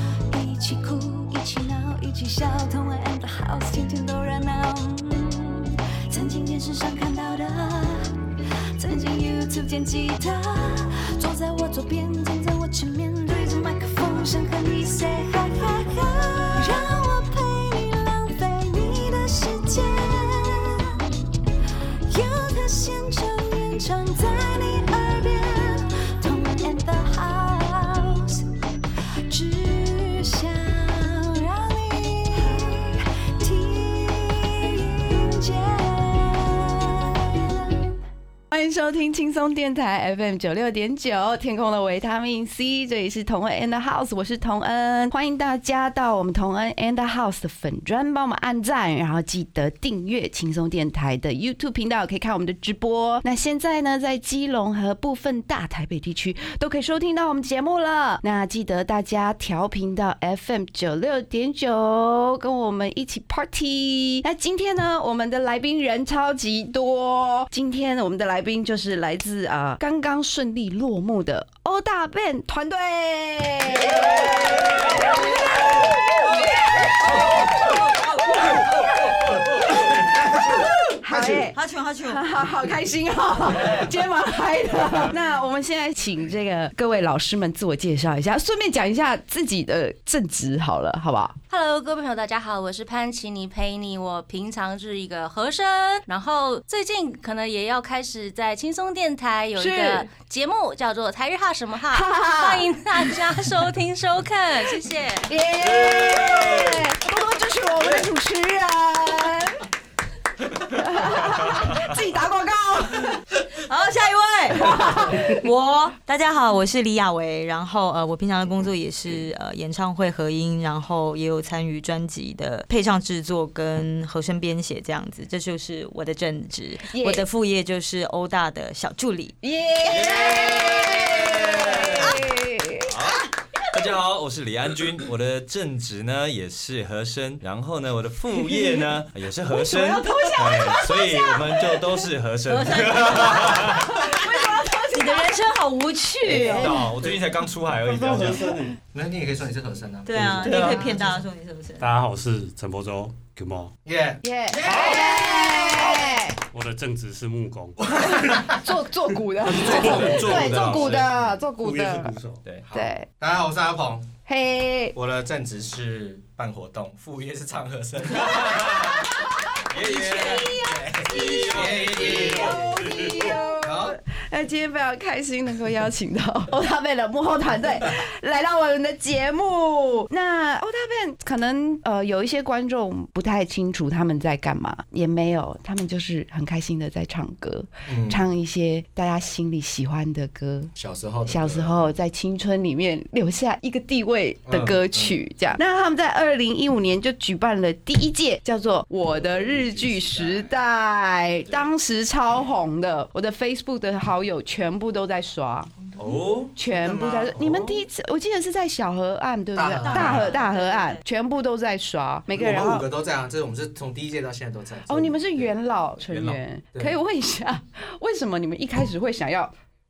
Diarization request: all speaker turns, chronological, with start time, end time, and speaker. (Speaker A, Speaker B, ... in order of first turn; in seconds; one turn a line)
Speaker A: 0.3-8.2
Speaker A: 8.8-21.0
Speaker A: 22.1-28.5
Speaker A: 29.3-37.5
Speaker B: 38.5-77.8
Speaker C: 77.6-78.5
Speaker D: 80.1-81.5
Speaker B: 81.0-91.4
Speaker C: 81.5-82.2
Speaker E: 91.5-105.3
Speaker B: 99.6-100.1
Speaker B: 101.9-102.8
Speaker B: 105.3-109.6
Speaker F: 105.6-106.9
Speaker B: 110.7-113.1
Speaker C: 113.6-129.4
Speaker B: 114.7-115.2
Speaker B: 126.9-127.2
Speaker B: 129.4-132.9
Speaker F: 129.8-132.3
Speaker F: 132.8-144.0
Speaker B: 139.5-141.8
Speaker C: 142.5-144.2
Speaker B: 143.6-145.4
Speaker C: 144.9-146.8
Speaker F: 146.2-148.6
Speaker B: 146.4-146.7
Speaker G: 147.0-148.8
Speaker D: 148.9-150.8
Speaker C: 150.1-151.9
Speaker G: 150.5-150.8
Speaker G: 151.8-153.7
Speaker D: 153.8-156.1
Speaker B: 154.2-156.4
Speaker G: 154.7-155.0
Speaker G: 156.5-158.6
Speaker D: 158.0-158.4
Speaker B: 158.3-162.1
Speaker F: 159.5-161.3
Speaker D: 159.6-160.7
Speaker G: 161.6-162.4
Speaker D: 162.7-164.1
Speaker B: 162.7-163.1
Speaker B: 164.3-164.9
Speaker D: 164.9-169.0
Speaker F: 168.4-169.0
Speaker F: 169.7-170.6
Speaker D: 169.8-174.0
Speaker B: 169.8-190.7
Speaker C: 171.1-171.7
Speaker F: 171.2-172.5
Speaker G: 172.8-173.1
Speaker D: 187.9-188.2
Speaker D: 190.8-191.9
Speaker B: 191.3-205.7
Speaker D: 194.5-195.2
Speaker D: 199.2-200.5
Speaker F: 206.0-206.5
Speaker D: 206.0-207.8
Speaker B: 206.6-212.8
Speaker D: 209.6-210.3
Speaker C: 209.8-211.0
Speaker F: 209.9-210.2
Speaker D: 212.3-215.5
Speaker B: 214.9-219.5
Speaker F: 216.1-216.4